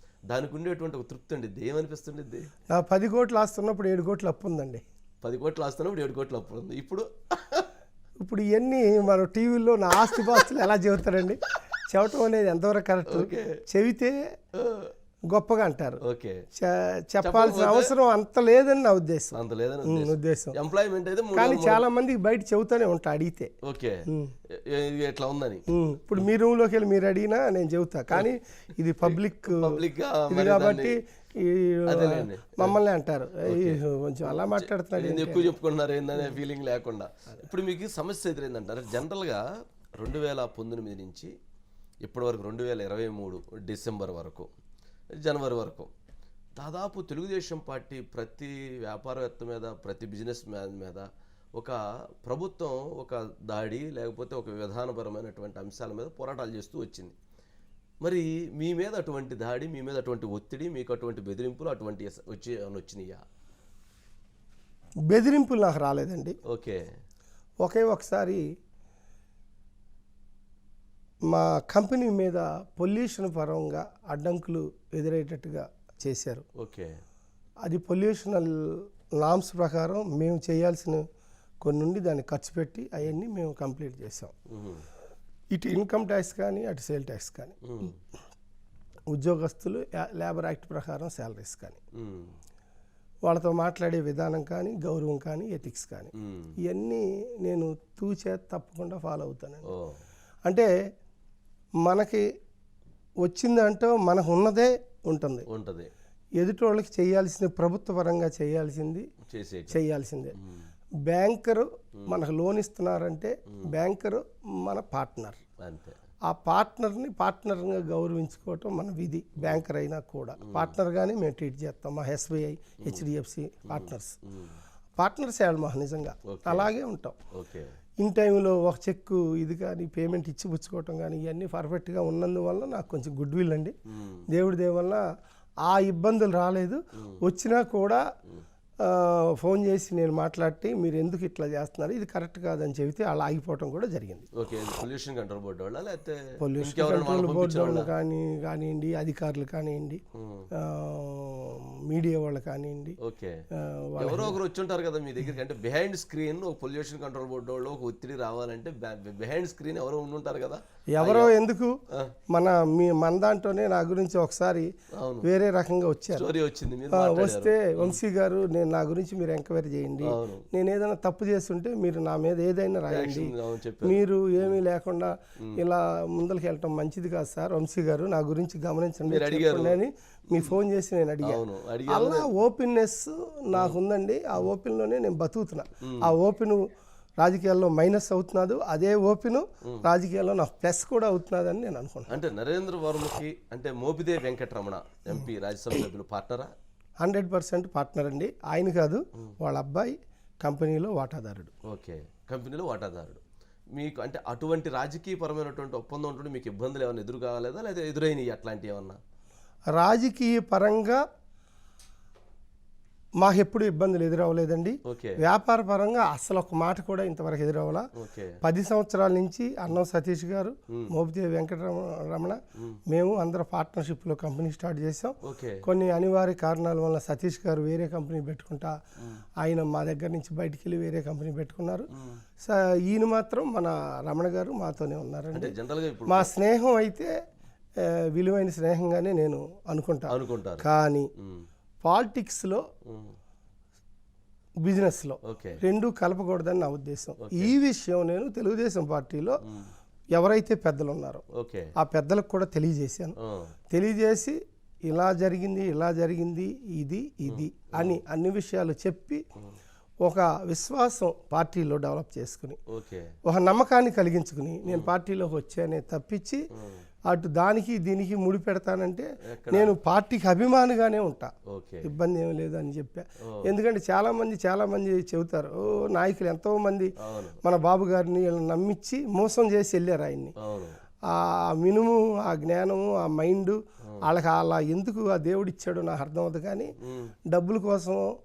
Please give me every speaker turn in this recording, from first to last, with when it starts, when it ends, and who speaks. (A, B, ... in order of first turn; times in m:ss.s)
0:00.3-0:02.5 A
0:02.7-0:04.8 B
0:05.2-0:07.7 A
0:08.2-0:14.2 B
0:10.2-0:10.5 A
0:13.1-0:13.6 A
0:14.6-0:14.9 A
0:15.3-0:16.0 B
0:16.0-0:16.4 A
0:16.6-0:20.6 B
0:17.2-0:17.9 A
0:19.3-0:21.8 A
0:21.3-0:23.5 B
0:23.6-0:25.6 A
0:25.7-0:29.8 B
0:29.0-0:31.0 A
0:30.3-0:35.6 B
0:31.9-0:32.8 A
0:33.4-0:39.4 A
0:40.0-0:41.3 A
0:42.0-0:44.5 A
0:45.2-0:45.9 A
0:46.6-0:51.1 A
0:51.6-0:57.1 A
0:58.0-1:03.2 A
1:05.1-1:06.4 B
1:06.5-1:06.8 A
1:07.6-1:08.4 B
1:11.3-1:16.4 B
1:16.6-1:17.0 A
1:17.6-1:21.0 B
1:21.6-1:24.3 B
1:24.5-1:24.8 A
1:25.5-1:27.6 B
1:27.6-1:28.0 A
1:29.1-1:31.8 B
1:32.0-1:32.3 A
1:33.3-1:36.1 B
1:36.2-1:36.5 A
1:36.6-1:39.7 B
1:39.7-1:40.0 A
1:41.8-1:42.2 B
1:43.2-1:45.5 B
1:45.5-1:45.9 A
1:46.4-1:49.1 B
1:49.3-1:49.8 A
1:49.7-1:50.4 B
1:50.4-1:50.7 A
1:51.1-1:55.4 B
1:55.6-1:56.0 A
1:56.3-2:04.2 B
2:00.4-2:00.8 A
2:02.8-2:03.1 A
2:03.7-2:04.6 A
2:05.0-2:07.2 B
2:06.3-2:06.7 A
2:07.3-2:07.7 A
2:08.0-2:13.8 B
2:13.9-2:14.2 A
2:14.3-2:15.0 B
2:15.6-2:18.0 B
2:18.8-2:24.3 B
2:24.4-2:27.9 A
2:26.4-2:30.0 B
2:30.2-2:30.5 A
2:30.6-2:33.0 B
2:33.0-2:33.4 A
2:33.6-2:34.4 B
2:34.0-2:41.4 A
2:40.9-2:41.8 B
2:42.3-2:44.7 B
2:45.0-2:45.3 A
2:45.2-2:46.3 B
2:46.1-2:48.0 A
2:46.9-2:53.3 B
2:50.0-2:50.4 A
2:52.9-2:54.6 A
2:53.8-3:06.6 B
2:59.1-2:59.8 A
3:01.2-3:02.3 A
3:05.8-3:06.1 A
3:07.2-3:12.1 B
3:12.1-3:16.5 A
3:17.0-3:21.5 B
3:21.7-3:23.2 A
3:23.8-3:29.0 A
3:29.7-3:31.0 B
3:33.2-3:37.9 B
3:34.9-3:35.2 A
3:38.0-3:38.4 A
3:38.4-3:48.7 B
3:45.2-3:45.6 A
3:49.4-3:51.9 B
3:51.9-3:52.2 A
3:52.4-3:55.6 B
3:55.3-3:56.3 A
3:56.1-3:57.1 B
3:57.8-4:01.1 B
4:00.1-4:00.7 A
4:01.2-4:01.5 A
4:01.8-4:02.6 B
4:02.9-4:03.1 A
4:04.6-4:09.4 B
4:05.2-4:05.6 A
4:07.2-4:07.5 A
4:10.2-4:11.2 B
4:11.3-4:11.7 A
4:11.8-4:13.2 B
4:13.2-4:13.5 A
4:13.7-4:19.2 B
4:17.3-4:18.0 A
4:20.0-4:22.6 B
4:22.7-4:23.1 A
4:23.3-4:26.4 B
4:24.7-4:24.9 A
4:26.5-4:26.8 A
4:27.1-4:31.3 B
4:29.3-4:29.7 A
4:31.5-4:31.9 A
4:31.8-4:36.9 B
4:37.0-4:37.4 A
4:37.4-4:40.4 B
4:40.4-4:40.8 A
4:41.1-4:46.8 B
4:46.8-4:47.1 A
4:47.3-4:48.0 B